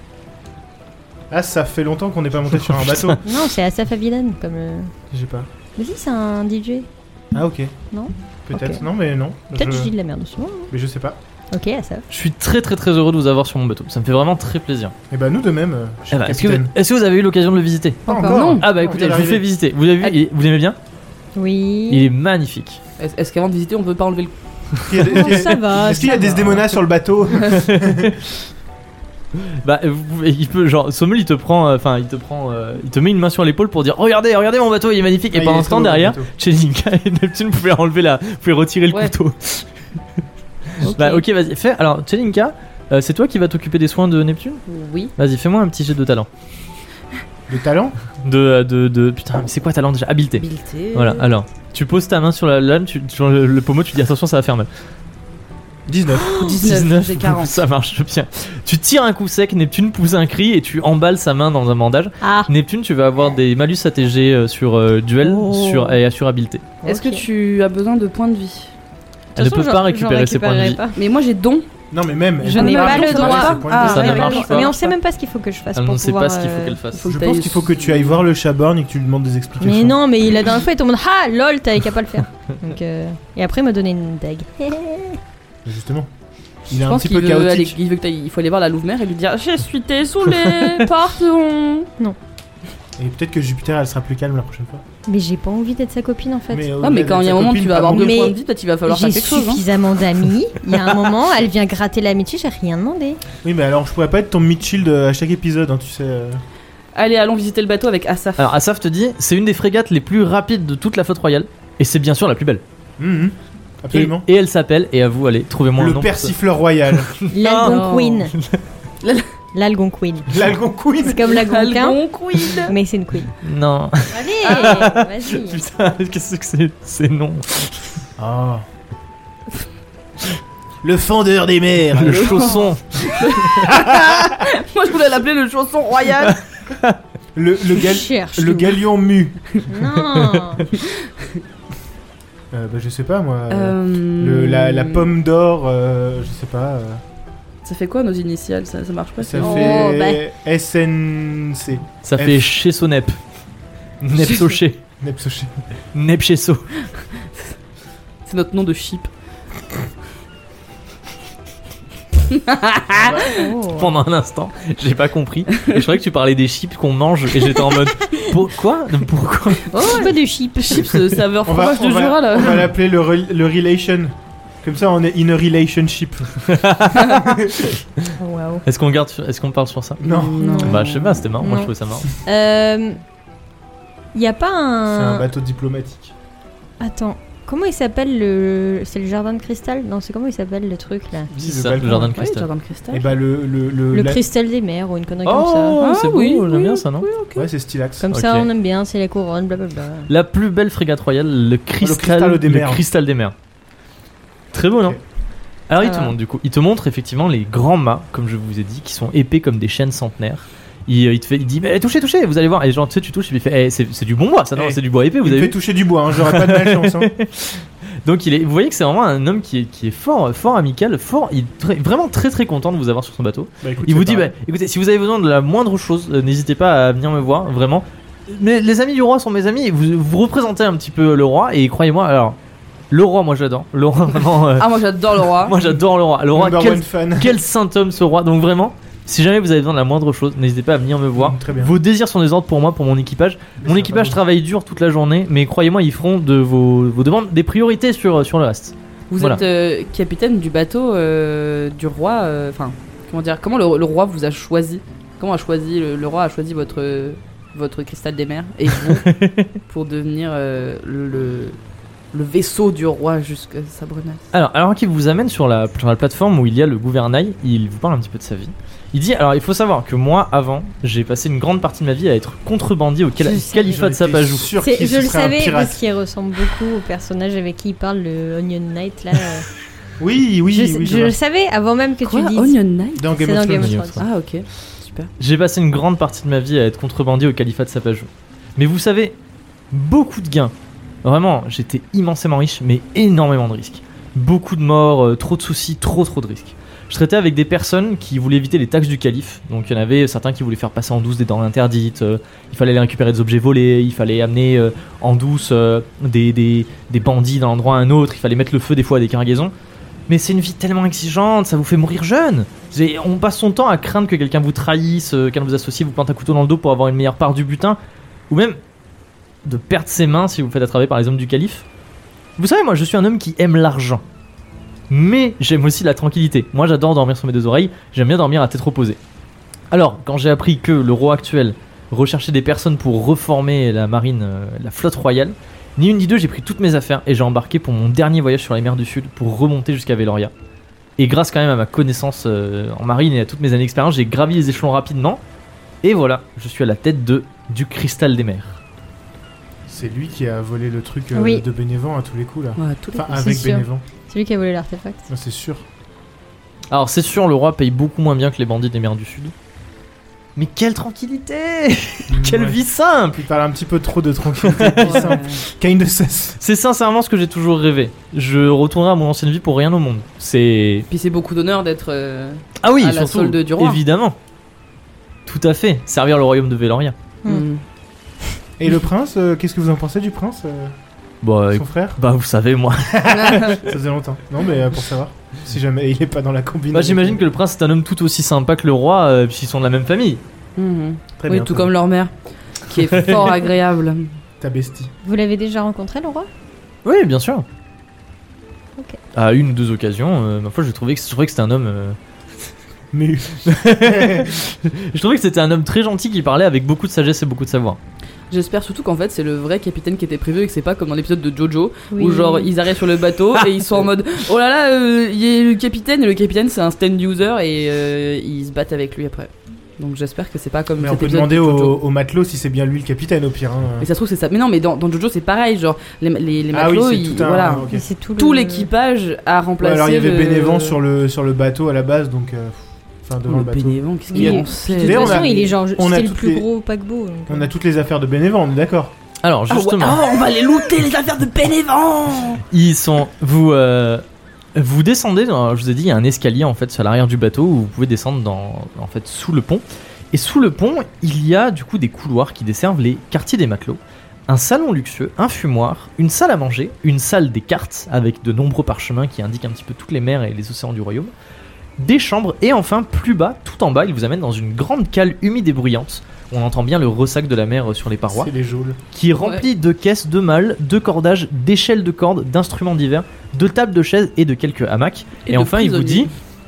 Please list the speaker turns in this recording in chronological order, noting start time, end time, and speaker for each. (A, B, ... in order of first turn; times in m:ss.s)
0:01.3-0:03.2 A
0:02.6-0:03.2 B
0:03.2-0:04.9 C
0:05.1-0:05.5 A
0:05.8-0:06.9 C
0:07.3-0:07.7 A
0:07.9-0:08.8 C
0:08.5-0:09.9 A
0:09.5-0:10.7 C
0:10.7-0:11.2 A
0:11.5-0:12.0 C
0:12.1-0:14.9 B
0:15.1-0:16.7 A
0:16.1-0:18.0 B
0:18.1-0:18.4 C
0:18.1-0:19.4 A
0:18.2-0:18.6 D
0:18.6-0:20.8 B
0:21.4-0:22.0 C
0:21.9-0:22.8 B
0:23.0-0:24.3 D
0:24.9-0:28.2 A
0:25.0-0:26.7 C
0:27.5-0:28.2 B
0:29.4-0:39.7 B
0:35.3-0:36.3 A
0:40.8-0:44.6 B
0:40.8-0:41.2 D
0:44.7-0:45.1 D
0:45.2-0:46.3 B
0:47.5-0:48.0 A
0:48.2-0:54.7 B
0:50.4-0:51.3 D
0:55.9-0:56.5 A
0:56.2-0:57.6 D
0:56.3-0:56.6 C
0:56.6-1:06.7 B
1:02.2-1:02.5 C
1:05.2-1:06.0 C
1:06.8-1:08.7 D
1:06.8-1:07.2 C
1:09.4-1:10.8 B
1:09.4-1:11.0 C
1:11.0-1:11.7 D
1:11.9-1:14.3 A
1:12.4-1:15.0 D
1:12.5-1:16.8 C
1:13.8-1:14.8 B
1:15.8-1:17.1 B
1:16.9-1:18.1 D
1:17.1-1:20.0 A
1:19.6-1:25.2 C
1:25.6-1:26.1 A
1:26.7-1:27.8 A
1:26.9-1:31.9 D
1:33.0-1:34.8 A
1:35.1-1:36.7 C
1:36.5-1:38.2 A
1:36.8-1:39.6 D
1:37.9-1:38.4 C
1:38.9-1:43.2 C
1:43.4-1:46.4 A
1:47.0-1:48.5 D
1:48.4-1:52.6 B
1:53.0-1:54.2 A
1:53.9-1:56.4 B
1:55.8-1:57.1 A
1:56.9-1:58.6 B
1:57.3-1:58.3 C
1:57.6-1:58.3 D
1:59.0-1:59.3 D
1:59.5-2:00.5 C
2:00.3-2:01.3 A
2:01.0-2:02.0 C
2:01.2-2:02.8 D
2:02.6-2:03.4 C
2:03.4-2:08.0 B
2:04.1-2:05.6 C
2:08.2-2:08.6 A
2:10.8-2:12.4 A
2:11.9-2:13.8 B
2:12.1-2:16.4 D
2:16.3-2:17.0 B
2:17.4-2:19.6 A
2:17.8-2:18.8 C
2:19.7-2:20.7 C
2:20.1-2:20.6 B
2:22.5-2:27.0 A
2:23.5-2:25.1 D
2:27.6-2:30.2 D
2:29.2-2:32.5 A
2:29.4-2:30.2 C
2:32.0-2:33.2 B
2:34.0-2:34.8 B
2:35.0-2:35.6 A
2:35.9-2:36.7 B
2:38.3-2:39.1 D
2:42.3-2:43.4 D
2:42.9-2:43.3 A
2:43.1-2:43.9 C
2:43.8-2:49.8 B
2:49.7-2:52.7 D
2:49.8-2:51.0 C
2:51.4-2:56.4 A
2:56.5-2:58.0 B
2:57.0-2:57.5 A
2:58.2-2:58.6 C
2:58.6-3:00.0 B
3:00.0-3:00.6 A
3:00.0-3:01.0 D
3:00.4-3:00.8 C
3:00.6-3:02.1 B
3:01.4-3:03.0 C
3:04.1-3:05.3 C
3:04.9-3:06.1 A
3:06.8-3:11.3 C
3:11.3-3:12.2 A
3:11.4-3:12.5 B
3:11.9-3:13.1 D
3:12.9-3:14.2 A
3:13.9-3:15.8 C
3:15.2-3:17.1 B
3:15.8-3:17.5 D
3:17.4-3:18.1 A
3:18.0-3:20.1 C
3:18.1-3:18.5 B
3:20.1-3:23.4 B
3:21.8-3:22.8 A
3:24.5-3:25.0 B
3:25.7-3:35.6 B
3:25.8-3:26.1 C
3:34.6-3:37.1 A
3:36.1-3:52.4 B
3:43.6-3:44.3 A
3:52.9-3:54.7 B
3:54.6-3:55.6 D
3:55.3-4:09.4 B
3:56.3-3:57.4 A
4:01.2-4:01.8 A
4:03.6-4:04.2 A
4:09.1-4:19.1 D
4:18.7-4:19.6 B
4:19.7-4:21.6 D
4:22.1-4:24.2 D
4:24.3-4:34.5 B
4:33.2-4:33.6 C
4:33.6-4:35.8 A
4:34.6-4:39.5 C
4:40.0-4:41.1 A
4:40.5-4:44.0 C
4:42.0-4:43.1 D
4:43.0-4:43.8 A
4:43.6-4:44.1 B
4:44.0-4:45.1 D
4:45.2-4:49.2 B
4:49.7-5:09.5 B
5:10.1-5:17.8 B
5:18.3-5:18.6 B
5:19.4-5:21.7 B
5:22.4-5:24.0 B
5:24.9-5:29.0 B
5:29.7-5:40.3 B
5:41.0-5:45.2 B
5:45.8-5:48.6 B
5:49.7-5:53.8 A
5:51.2-5:51.4 C
5:52.6-5:53.1 D
5:53.1-5:55.1 C
5:55.1-5:55.6 A
5:56.7-5:59.3 B
6:00.4-6:03.2 B
6:02.1-6:02.6 A
6:03.2-6:06.4 A
6:04.4-6:05.2 B
6:04.8-6:05.4 D
6:06.4-6:10.9 B
6:10.9-6:13.8 D
6:12.6-6:14.2 B
6:15.3-6:17.0 B
6:17.2-6:17.6 D
6:18.6-6:20.8 A
6:21.2-6:23.5 B
6:21.5-6:22.0 A
6:22.9-6:27.2 A
6:23.1-6:23.6 D
6:26.7-6:30.2 B
6:30.6-6:32.1 D
6:31.2-6:31.7 A
6:32.7-6:34.1 D
6:34.4-6:34.9 A
6:35.0-6:36.3 C
6:36.8-6:37.4 B
6:39.1-6:42.0 B
6:42.9-6:44.3 A
6:43.5-6:47.8 B
6:48.3-7:01.8 D
6:51.9-6:52.5 C
7:00.8-7:03.9 A
7:03.8-7:10.8 D
7:06.5-7:07.9 A
7:07.7-7:08.7 C
7:09.6-7:16.5 A
7:13.3-7:15.5 D
7:14.1-7:17.5 C
7:17.3-7:19.0 A
7:19.2-7:20.0 B
7:19.5-7:22.4 D
7:22.5-7:24.0 B
7:24.6-7:41.1 B
7:41.8-7:48.3 B
7:48.1-7:48.8 A
7:48.9-7:56.1 B
7:55.3-7:56.1 D